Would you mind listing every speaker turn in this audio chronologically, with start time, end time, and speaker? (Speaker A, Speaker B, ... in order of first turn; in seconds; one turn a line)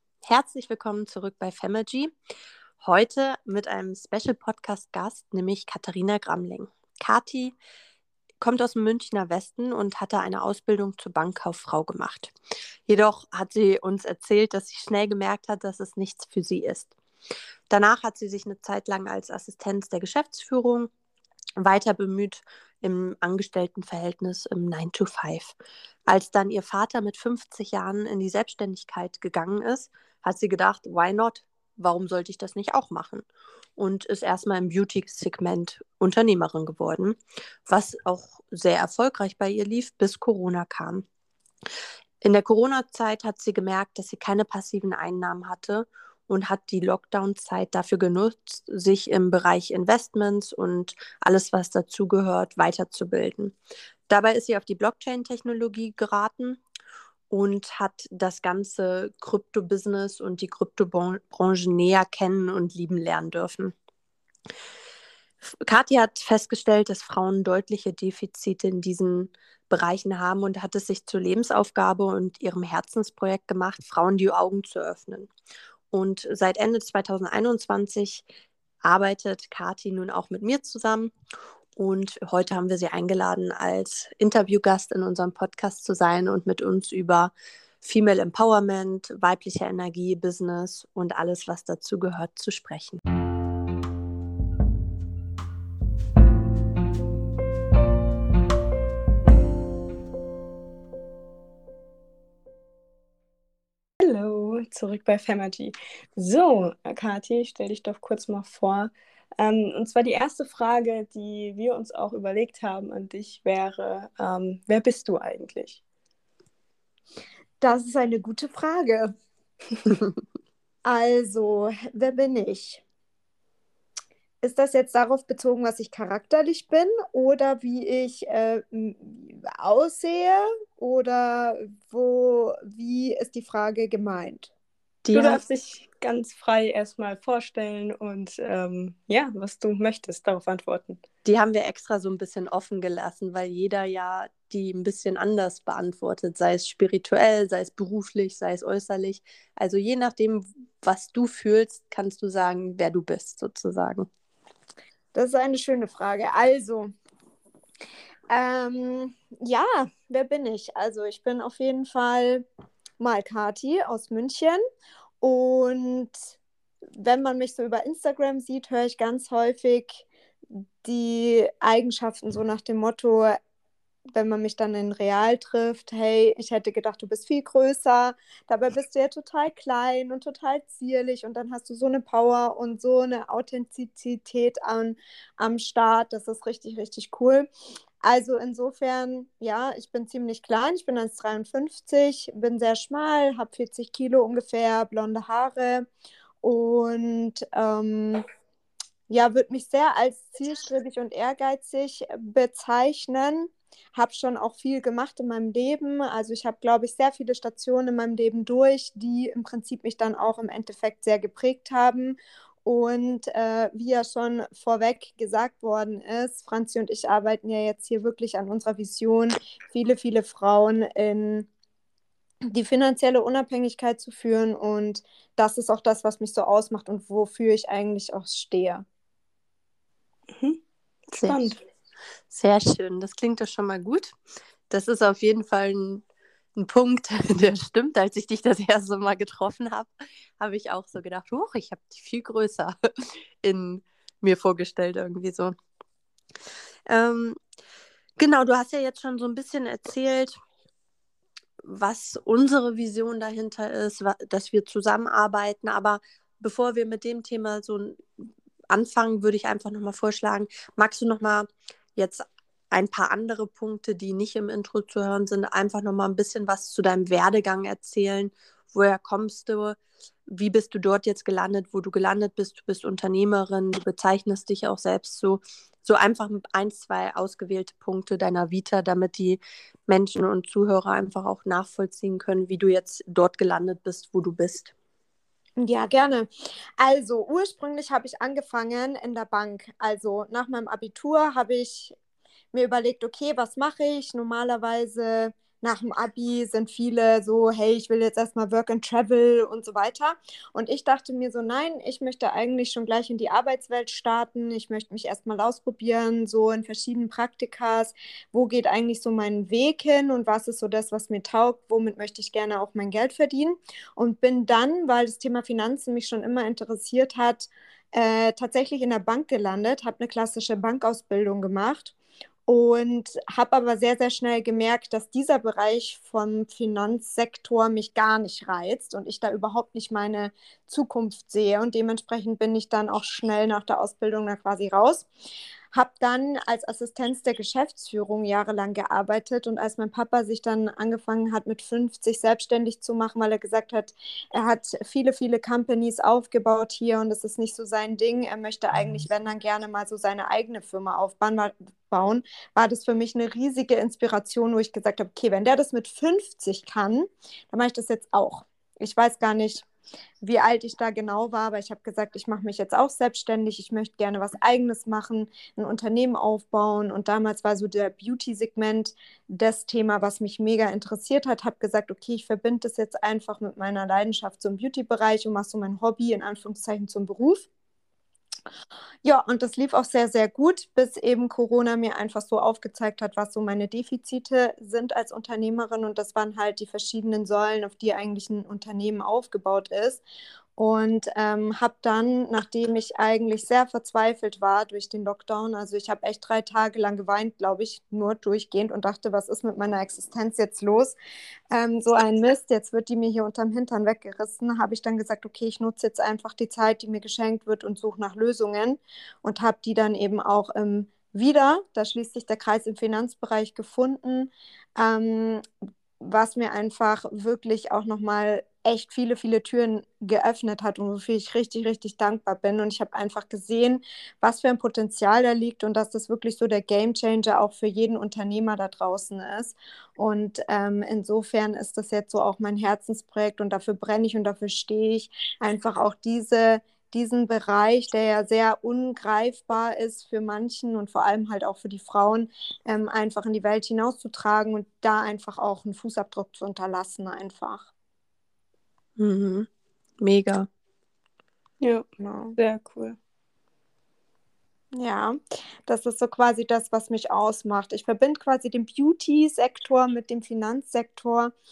Speaker A: 0.3-2.1
Speaker A: 2.8-7.5
Speaker A: 8.4-12.3
Speaker A: 12.9-16.9
Speaker A: 17.7-20.9
Speaker A: 21.6-25.5
Speaker A: 26.1-33.2
Speaker A: 33.8-41.0
Speaker A: 42.2-53.5
Speaker A: 54.1-56.6
Speaker A: 57.3-63.7
Speaker A: 65.4-75.3
Speaker A: 75.9-78.2
Speaker A: 78.8-81.1
Speaker A: 81.8-93.0
Speaker B: 104.0-115.8
Speaker C: 117.6-119.1
Speaker C: 120.8-122.8
Speaker C: 124.4-134.5
Speaker A: 135.0-135.4
Speaker B: 135.1-141.0
Speaker A: 141.2-154.1
Speaker C: 155.1-156.9
Speaker C: 158.3-162.4
Speaker C: 163.0-164.6
Speaker C: 165.2-166.2
Speaker C: 166.9-173.4
Speaker C: 174.1-187.5
Speaker C: 188.0-195.9
Speaker C: 196.4-198.2
Speaker C: 199.1-221.5
Speaker C: 222.5-228.8
Speaker B: 230.3-230.6
Speaker A: 231.1-231.4
Speaker B: 231.1-231.6
Speaker A: 232.3-234.2
Speaker A: 234.7-236.0
Speaker A: 236.6-245.6
Speaker A: 246.9-247.4
Speaker A: 248.2-250.4
Speaker A: 251.6-258.0
Speaker A: 258.7-284.7
Speaker C: 285.6-286.3
Speaker C: 286.8-291.9
Speaker C: 292.5-321.9
Speaker C: 322.5-335.1
Speaker C: 335.7-359.6
Speaker C: 360.2-377.5
Speaker C: 379.0-390.0
Speaker C: 390.6-400.9
Speaker C: 401.5-415.4
Speaker C: 416.0-447.7
Speaker A: 449.0-449.5
Speaker A: 450.0-450.5
Speaker B: 451.6-451.9
Speaker C: 452.0-452.4
Speaker B: 452.4-453.0
Speaker C: 454.7-461.3